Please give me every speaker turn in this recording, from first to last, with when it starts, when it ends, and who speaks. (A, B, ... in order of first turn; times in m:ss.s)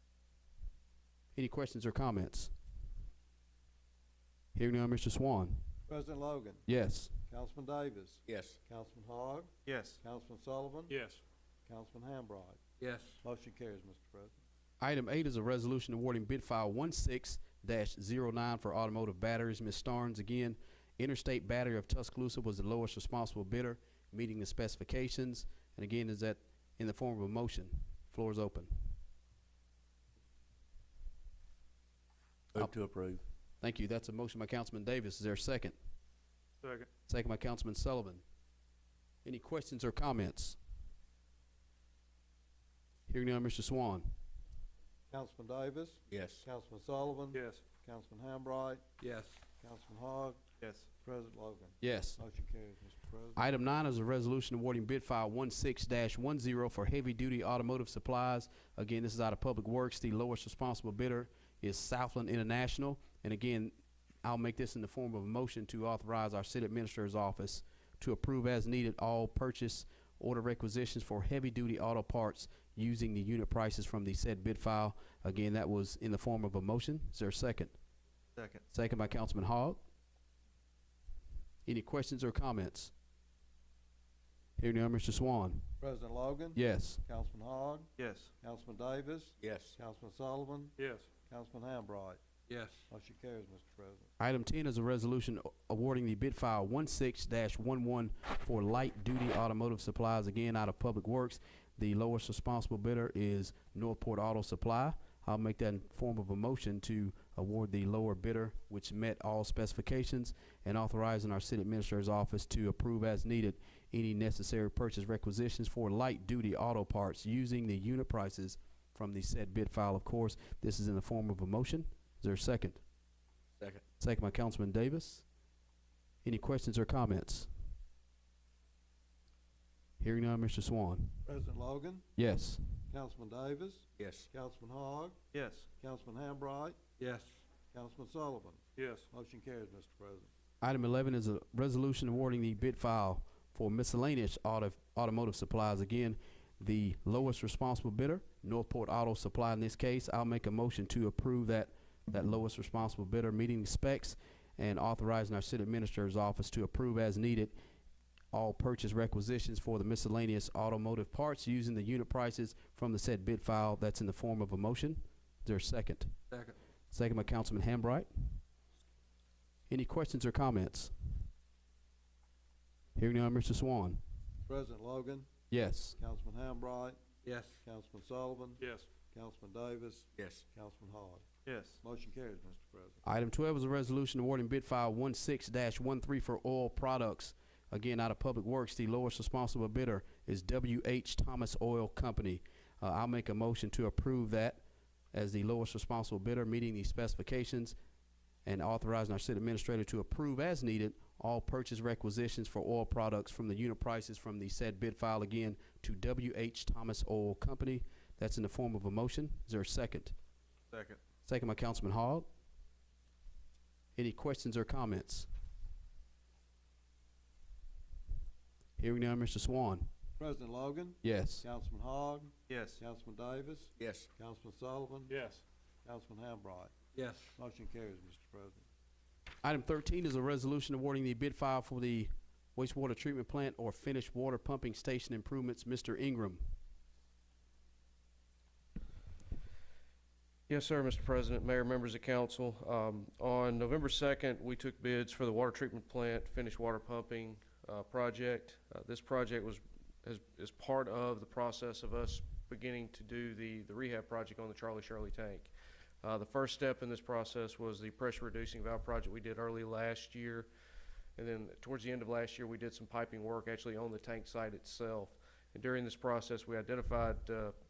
0:01.3-0:02.5 A
0:04.5-0:05.6 A
0:05.9-0:06.6 B
0:06.7-0:07.1 A
0:07.3-0:11.0 B
0:08.3-0:08.6 C
0:09.6-0:10.0 D
0:11.7-0:12.6 B
0:12.8-0:13.2 C
0:13.2-0:14.4 B
0:14.8-0:28.9 A
0:32.5-0:33.2 C
0:33.6-0:35.8 A
0:36.6-0:36.9 D
0:37.1-0:38.2 A
0:39.2-0:40.6 A
0:43.1-0:44.1 A
0:45.1-0:48.8 B
0:46.1-0:46.4 C
0:47.3-0:47.6 D
0:49.6-0:50.4 B
0:50.6-0:50.9 D
0:51.0-0:53.4 B
0:51.8-0:52.2 A
0:53.4-1:17.7 A
1:18.4-1:18.6 D
1:18.7-1:19.8 A
1:21.6-1:22.9 A
1:24.6-1:25.6 A
1:25.8-1:32.2 B
1:26.6-1:27.0 A
1:28.0-1:28.3 D
1:29.4-1:29.8 C
1:32.5-1:32.8 C
1:32.9-1:34.1 B
1:34.2-2:02.8 A
2:04.0-2:05.2 A
2:06.2-2:07.5 A
2:10.0-2:11.2 A
2:11.2-2:12.0 B
2:12.2-2:12.6 A
2:12.9-2:15.2 B
2:14.0-2:14.3 C
2:15.3-2:15.7 D
2:15.7-2:16.8 B
2:17.0-2:17.3 C
2:17.7-2:20.3 B
2:18.8-2:19.1 D
2:20.6-2:37.5 A
2:38.3-2:46.2 A
2:46.9-2:48.1 A
2:49.7-2:50.9 A
2:53.0-2:54.0 A
2:54.5-2:55.3 B
2:55.5-2:56.0 A
2:56.0-2:57.0 B
2:57.2-2:57.5 C
2:57.6-3:01.3 B
2:58.6-2:58.9 D
3:00.2-3:00.4 C
3:01.4-3:01.8 D
3:01.8-3:03.0 B
3:03.0-3:14.6 A
3:15.1-3:17.8 A
3:18.4-3:30.1 A
3:31.2-3:32.3 A
3:34.0-3:35.3 A
3:38.8-3:39.9 A
3:40.2-3:45.2 B
3:41.0-3:41.4 A
3:42.5-3:42.8 D
3:43.8-3:44.1 C
3:45.1-3:45.4 D
3:45.8-3:46.7 B
3:47.0-3:47.3 C
3:47.4-3:48.6 B
3:49.4-3:56.4 A
4:00.5-4:15.5 E
4:16.0-4:20.5 E
4:21.2-4:27.5 E